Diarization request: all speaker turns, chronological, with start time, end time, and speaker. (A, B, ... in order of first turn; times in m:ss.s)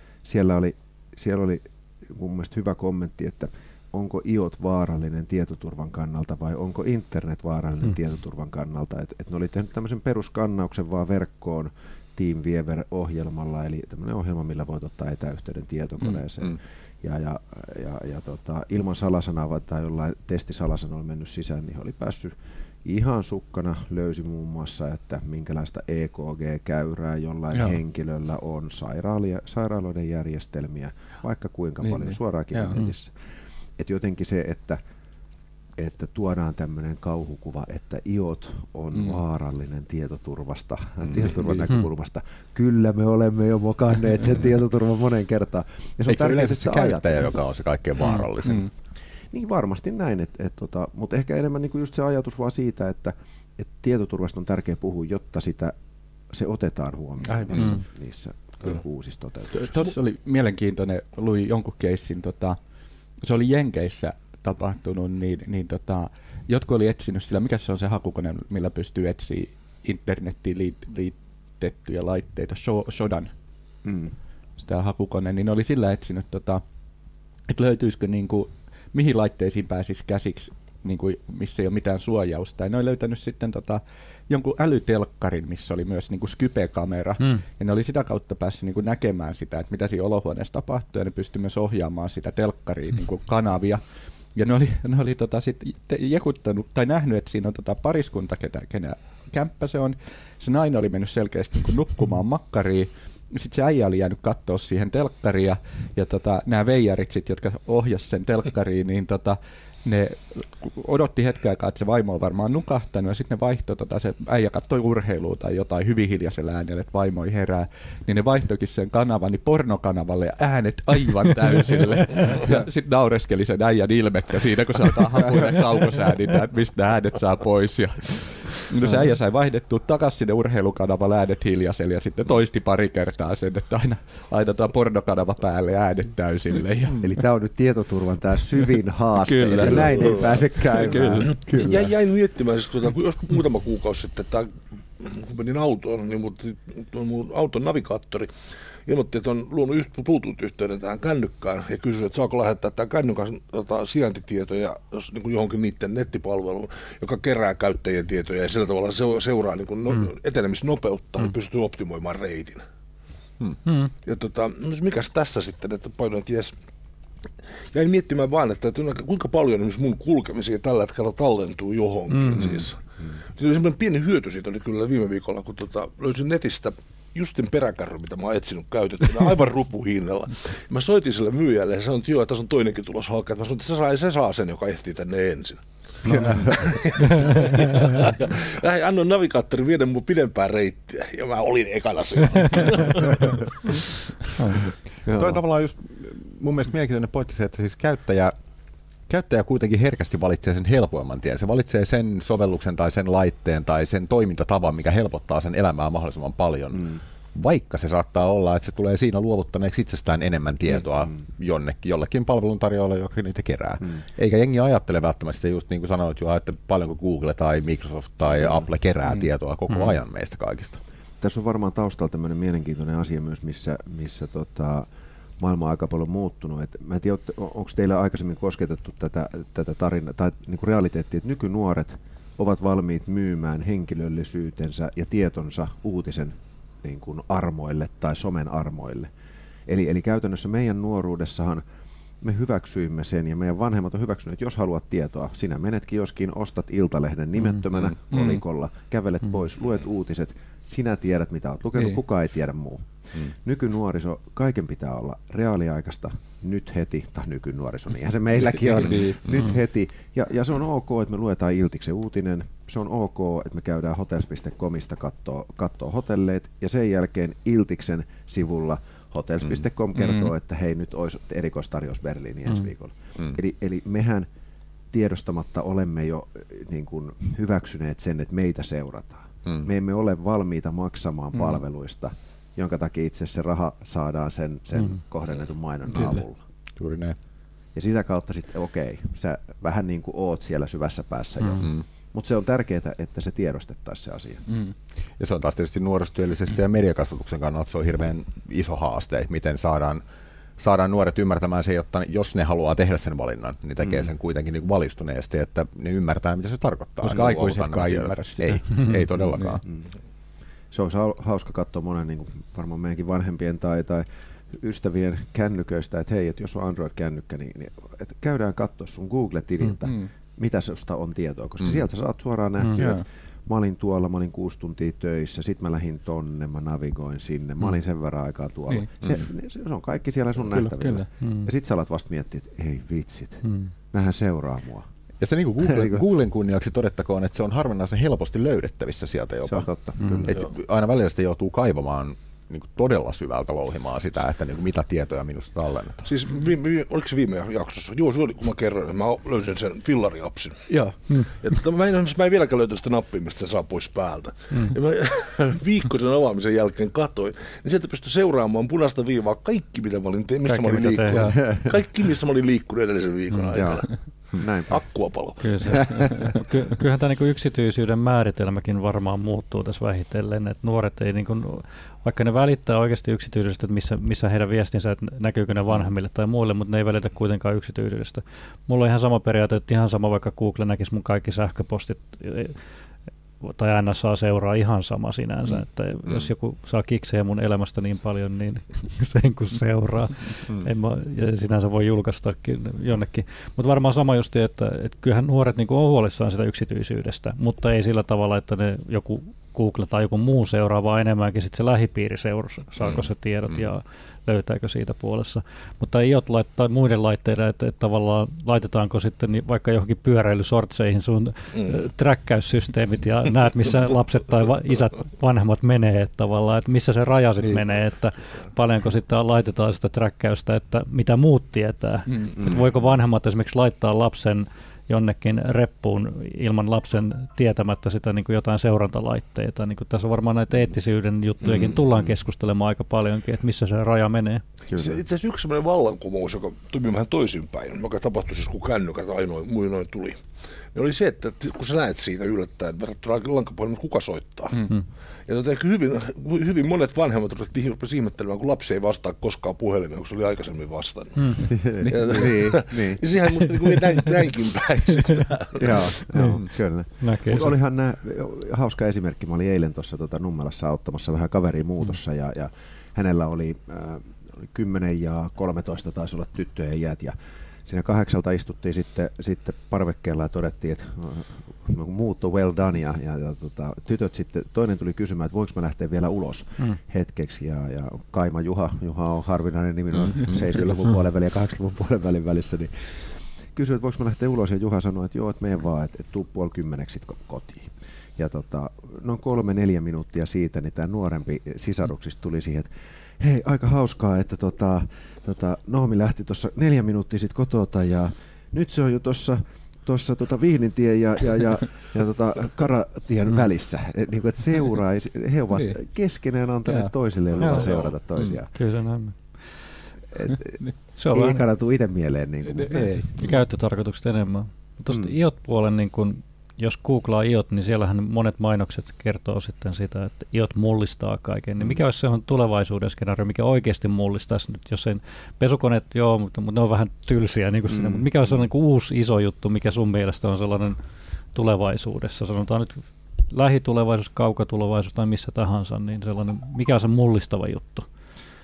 0:00.2-0:34.8 A
0:27.5-0:27.8 B
0:31.8-0:32.9 B
0:35.8-0:47.4 A
0:38.9-0:39.2 B
0:41.0-0:41.4 C
0:46.1-0:48.7 C
0:48.4-0:48.7 B
0:49.3-0:55.8 A
0:56.3-0:59.9 A
0:57.2-0:57.8 B
0:59.5-1:02.6 B
1:03.2-1:13.3 B
1:13.8-1:14.2 A
1:14.6-1:16.6 B
1:17.5-1:33.8 B
1:34.4-2:17.1 B
2:17.0-2:21.9 A
2:19.2-2:21.4 B
2:20.0-2:20.3 D
2:21.2-2:28.3 D
2:28.9-2:42.6 D
2:43.6-2:43.9 E
2:44.0-2:46.6 D
2:47.7-2:52.8 D
2:52.1-2:52.4 E
2:52.4-2:53.1 A
2:53.4-3:05.6 D
3:06.0-3:06.5 E
3:06.2-3:13.8 D
3:07.0-3:08.0 E
3:14.4-3:14.6 E
3:15.0-3:15.4 A
3:15.1-3:18.3 C
3:19.1-3:40.8 C
3:26.7-3:27.0 A
3:39.7-3:40.0 E
3:41.2-3:59.1 A
3:59.7-4:01.6 A
4:02.2-4:34.3 A
4:08.1-4:08.4 B
4:18.4-4:19.2 B
4:30.0-4:30.3 B
4:34.9-4:46.4 A
4:46.0-4:46.2 B
4:46.8-4:47.2 C
4:47.7-4:54.5 A
4:51.6-4:51.9 C
4:54.5-4:54.7 B
4:55.2-5:00.0 C
5:00.6-5:09.6 C
5:03.8-5:04.1 A
5:07.0-5:09.6 B
5:10.7-5:34.9 A
5:19.8-5:20.1 B
5:22.8-5:23.0 B
5:29.0-5:29.3 C
5:30.5-5:31.1 B
5:31.2-5:31.5 E
5:33.4-5:33.7 E
5:35.2-5:39.7 C
5:35.6-5:36.1 A
5:39.4-5:40.4 A
5:40.0-5:40.3 E
5:40.2-5:46.0 C
5:46.0-5:50.6 D
5:50.7-5:51.0 B
5:51.4-6:05.8 D
5:54.5-5:54.8 E
6:00.4-6:01.4 E
6:01.1-6:01.8 A
6:03.5-6:04.8 A
6:05.4-6:22.8 E
6:23.4-7:14.4 E
6:42.8-6:43.7 C
7:02.1-7:02.4 B
7:11.4-7:11.7 D
7:14.7-7:15.0 A
7:14.7-7:20.2 D
7:20.7-7:24.6 D
7:25.3-7:36.0 D
7:31.2-7:31.5 E
7:31.5-7:33.0 A
7:31.8-7:32.6 B
7:35.6-8:28.5 A
7:36.1-7:36.4 E
7:37.0-7:37.5 E
7:59.9-8:00.8 C
8:25.5-8:25.8 B
8:26.6-8:27.0 B
8:27.4-8:27.7 E
8:28.5-8:29.8 E
8:30.1-8:33.2 A
8:31.0-8:31.4 E
8:32.5-8:33.4 B
8:33.2-8:50.8 E
8:34.9-8:35.2 A
8:47.7-8:48.1 A
8:51.3-8:57.9 E